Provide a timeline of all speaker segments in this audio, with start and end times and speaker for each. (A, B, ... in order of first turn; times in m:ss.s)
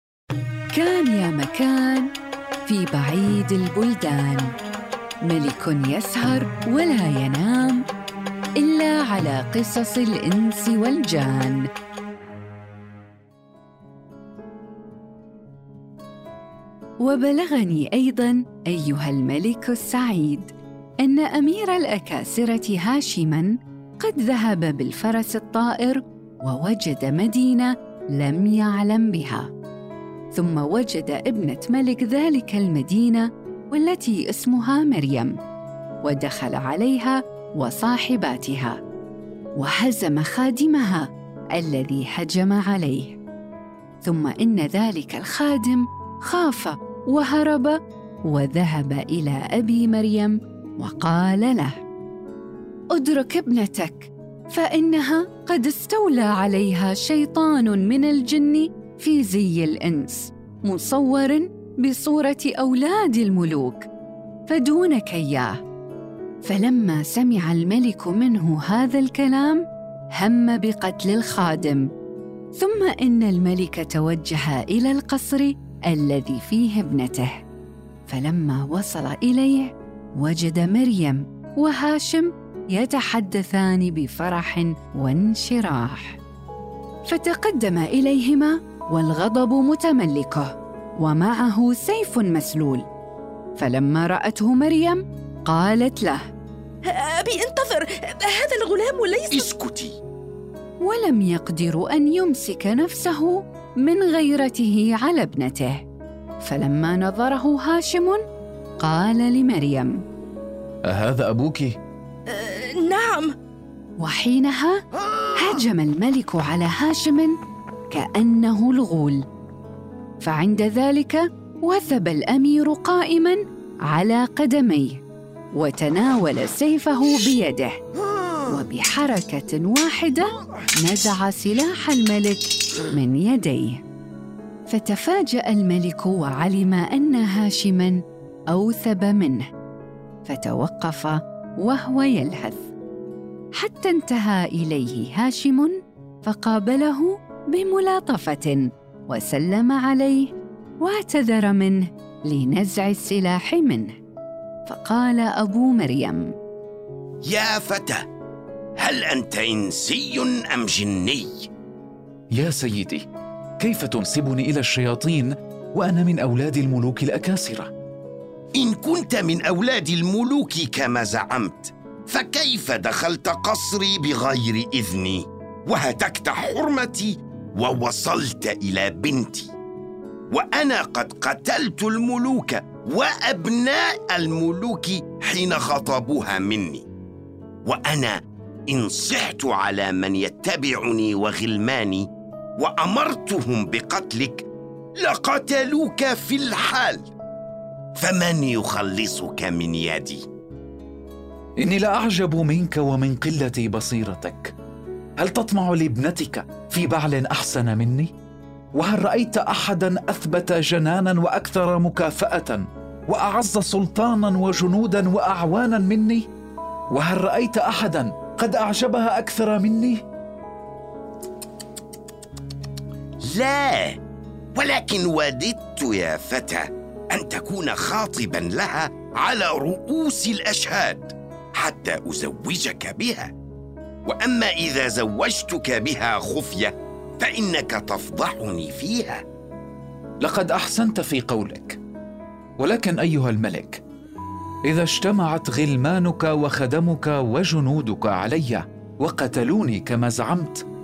0:00.7-0:02.1 A
0:02.6-0:04.5 A
0:05.2-0:07.8 A
0:08.6-0:11.7 A
0:17.0-0:29.5 A
0:30.3-0:35.4 A
0:36.0-0:38.8 A
0:39.6-0:43.2 A
0:44.0-0:51.8 A
0:52.9-1:03.9 A
1:04.5-1:05.6 A
1:06.4-1:11.9 A
1:12.6-1:17.4 A
1:18.1-1:26.2 A
1:27.1-1:32.9 A
1:33.6-1:36.2 A
1:37.0-1:39.4 B
1:39.3-1:40.0 C
1:40.8-1:45.8 A
1:46.4-1:48.2 A
1:48.8-1:50.0 A
1:50.8-1:51.8 D
1:52.3-1:53.3 B
1:54.0-1:54.8 A
1:55.4-1:57.3 A
1:57.9-1:59.2 A
2:00.2-2:03.4 A
2:03.9-2:05.0 A
2:05.6-2:07.8 A
2:08.5-2:13.8 A
2:14.7-2:19.4 A
2:20.2-2:22.7 A
2:23.6-2:33.9 A
2:34.7-2:36.3 A
2:37.2-2:38.0 C
2:38.8-2:41.5 C
2:42.3-2:43.0 D
2:43.6-2:47.7 D
2:48.6-2:59.5 C
3:00.3-3:06.9 C
3:07.6-3:14.5 C
3:15.0-3:17.1 C
3:18.0-3:20.2 C
3:21.6-3:24.5 D
3:25.2-3:28.1 D
3:28.8-3:36.3 D
3:36.9-3:40.0 D
3:43.3-3:44.0 C
3:44.6-3:53.3 C
3:54.0-3:59.2 C
4:00.2-4:01.8 D
4:02.6-4:03.8 D
4:04.7-4:10.6 D